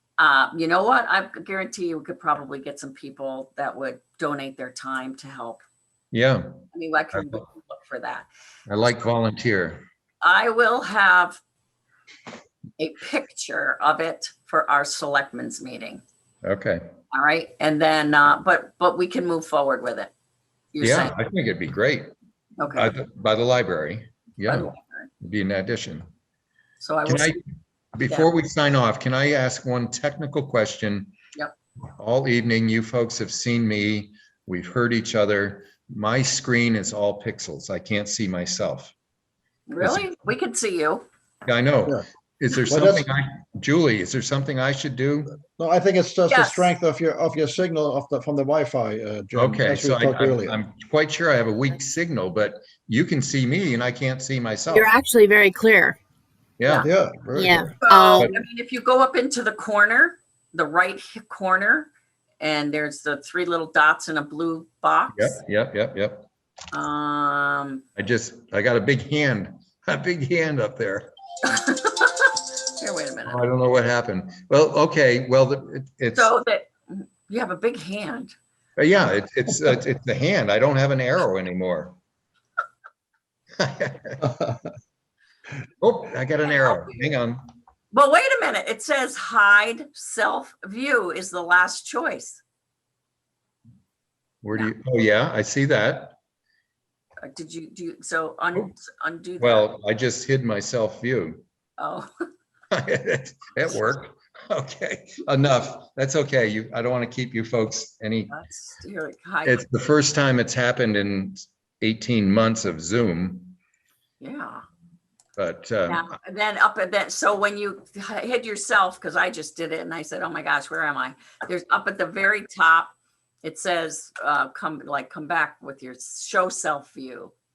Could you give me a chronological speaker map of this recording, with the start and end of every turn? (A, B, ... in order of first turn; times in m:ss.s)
0:00.2-0:05.6 A
0:06.1-0:07.4 B
0:06.7-0:08.3 A
0:08.7-0:09.8 B
0:10.2-0:11.4 A
0:12.8-0:16.0 A
0:16.4-0:16.9 B
0:17.1-0:20.1 A
0:20.7-0:21.2 A
0:20.8-0:22.1 B
0:22.6-0:23.0 A
0:22.8-0:24.7 B
0:24.5-0:25.1 A
0:25.2-0:26.1 B
0:26.8-0:27.4 A
0:27.1-0:27.4 B
0:28.0-0:31.1 B
0:28.0-0:28.3 A
0:32.0-0:38.9 B
0:39.7-0:41.1 A
0:39.8-0:40.1 B
0:41.5-0:45.3 B
0:42.7-0:43.1 C
0:45.5-0:50.6 C
0:46.3-0:46.7 A
0:49.4-0:54.9 B
0:54.7-0:56.0 D
0:56.6-0:56.9 B
0:56.8-0:57.7 C
0:57.4-0:58.3 D
0:57.8-1:05.4 A
1:05.1-1:06.3 B
1:06.7-1:07.8 A
1:08.0-1:11.1 B
1:11.4-1:13.4 A
1:13.3-1:16.3 B
1:16.1-1:18.3 A
1:18.8-1:22.0 B
1:23.6-1:24.2 B
1:24.2-1:24.6 C
1:25.8-1:27.4 B
1:26.4-1:27.0 A
1:27.9-1:32.4 A
1:34.4-1:36.2 B
1:37.2-1:39.7 A
1:39.4-1:41.4 B
1:41.8-1:42.1 A
1:42.7-1:48.3 B
1:48.3-1:49.7 A
1:49.4-1:53.6 B
1:54.2-1:54.6 A
1:55.4-1:56.1 B
1:55.9-2:07.3 A